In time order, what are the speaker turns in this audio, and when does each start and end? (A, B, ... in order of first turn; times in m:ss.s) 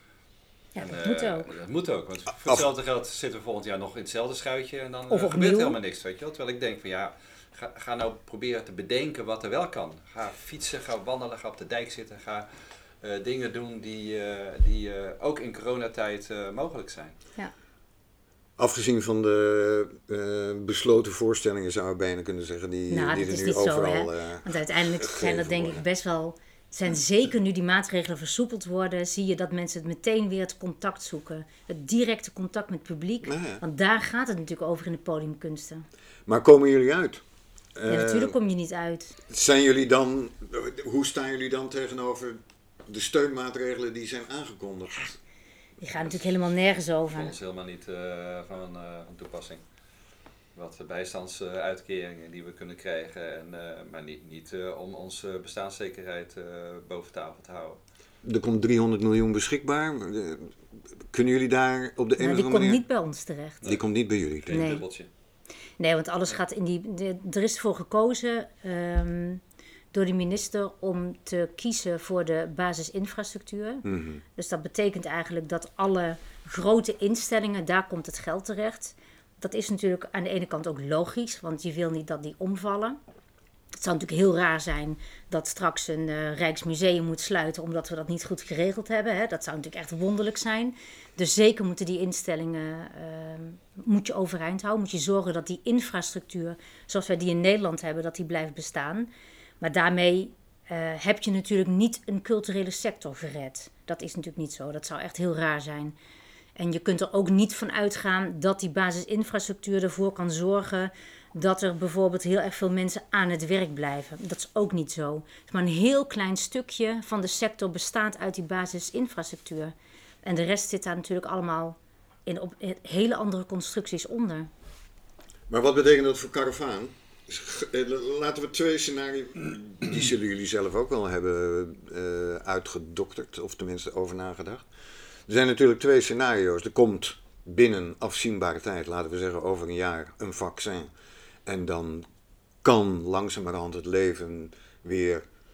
0:00.8-0:01.5 A
0:00.8-0:12.5 B
0:05.1-0:05.8 A
0:13.0-0:17.2 B
0:18.6-0:25.8 C
0:22.9-0:35.9 A
0:33.2-0:33.6 C
0:36.3-0:37.2 C
0:37.8-0:38.4 C
0:37.9-0:39.2 A
0:39.3-0:45.2 C
0:45.8-0:47.3 A
0:47.1-0:49.6 B
0:50.6-0:57.8 B
0:58.2-1:00.5 C
1:01.1-1:02.8 C
1:02.2-1:03.6 A
1:03.6-1:04.6 C
1:04.4-1:05.1 B
1:04.5-1:04.8 A
1:05.8-1:09.4 A
1:09.9-1:23.0 A
1:13.8-1:14.2 C
1:23.8-1:39.1 A
1:39.6-1:46.0 A
1:46.6-2:04.5 A
2:05.5-2:14.7 C
2:15.3-2:20.9 C
2:21.5-2:22.1 C
2:22.6-2:25.3 C